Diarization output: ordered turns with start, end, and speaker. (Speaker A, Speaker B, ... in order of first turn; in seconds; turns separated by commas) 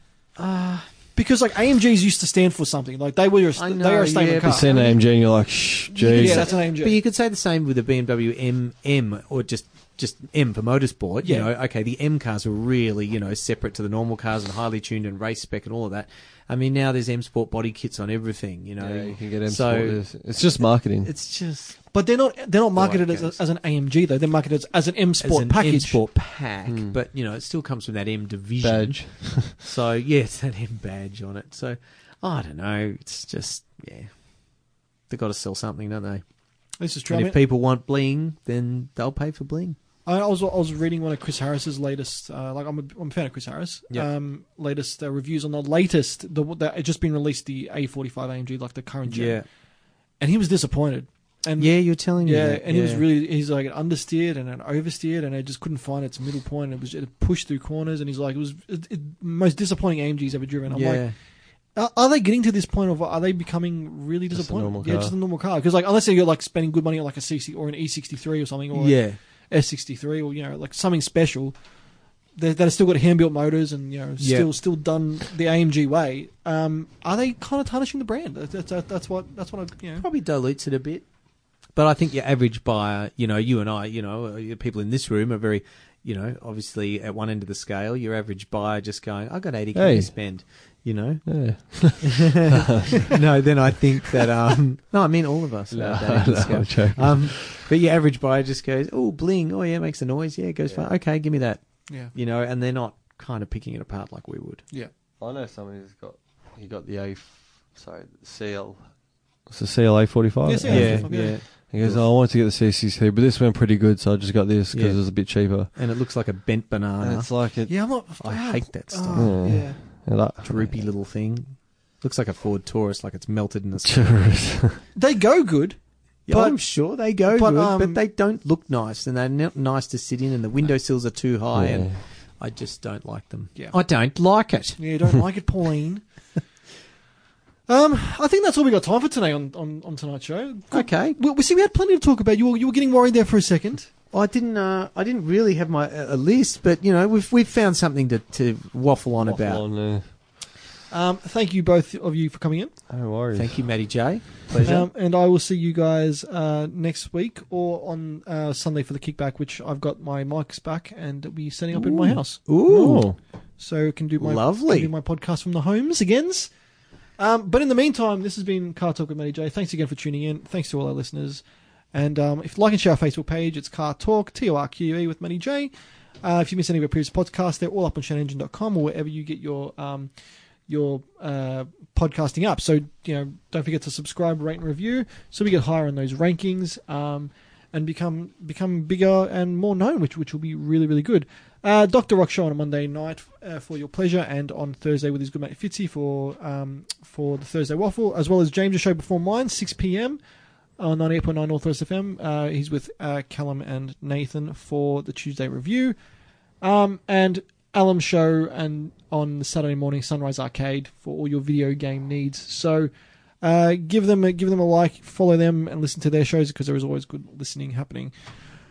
Speaker A: 0.4-0.9, Speaker B: 1.1-4.7, Speaker A: 3.5-5.0, Speaker C: 4.5-6.5, Speaker A: 5.9-20.0, Speaker B: 6.2-7.0, Speaker B: 11.2-11.5, Speaker C: 18.8-21.1, Speaker A: 21.0-21.8, Speaker B: 21.9-26.0, Speaker A: 22.8-23.4, Speaker A: 25.2-34.1, Speaker C: 26.7-26.9, Speaker C: 28.6-29.5, Speaker A: 35.1-36.2, Speaker B: 36.8-37.4, Speaker A: 37.1-39.8, Speaker B: 40.0-49.4, Speaker A: 49.1-49.5, Speaker B: 50.2-61.1, Speaker A: 51.6-53.0, Speaker A: 60.7-61.1, Speaker B: 61.8-69.0, Speaker C: 64.3-65.1, Speaker A: 68.7-69.2, Speaker B: 69.5-71.5, Speaker B: 72.3-80.1, Speaker A: 74.2-74.5, Speaker A: 80.0-81.0, Speaker A: 81.7-91.2, Speaker C: 89.7-90.1, Speaker C: 91.2-93.1, Speaker A: 92.0-101.6, Speaker C: 95.7-97.6, Speaker A: 102.1-104.6, Speaker C: 105.2-108.8, Speaker C: 109.5-115.7, Speaker B: 110.5-111.4, Speaker A: 110.7-112.0, Speaker A: 114.7-115.0, Speaker A: 115.7-117.3, Speaker C: 117.0-117.7, Speaker B: 117.7-119.8, Speaker A: 118.2-119.6, Speaker C: 119.1-120.7, Speaker A: 120.4-124.0, Speaker C: 123.8-124.8, Speaker B: 124.9-125.8, Speaker A: 126.3-134.8, Speaker B: 126.3-126.6, Speaker B: 127.2-128.0, Speaker C: 131.5-132.0, Speaker B: 134.8-136.0, Speaker B: 137.7-143.9, Speaker A: 140.7-141.2, Speaker A: 144.1-149.6, Speaker C: 149.2-150.1, Speaker B: 150.9-152.7, Speaker C: 152.9-153.6, Speaker A: 153.3-154.9, Speaker B: 154.6-162.4, Speaker C: 161.7-163.2, Speaker A: 162.0-163.1, Speaker B: 163.6-166.5, Speaker A: 164.2-164.9, Speaker B: 167.2-171.4, Speaker B: 171.9-175.7, Speaker B: 176.2-180.1, Speaker B: 180.7-200.2, Speaker B: 200.8-205.9, Speaker B: 206.6-212.9, Speaker B: 213.4-218.1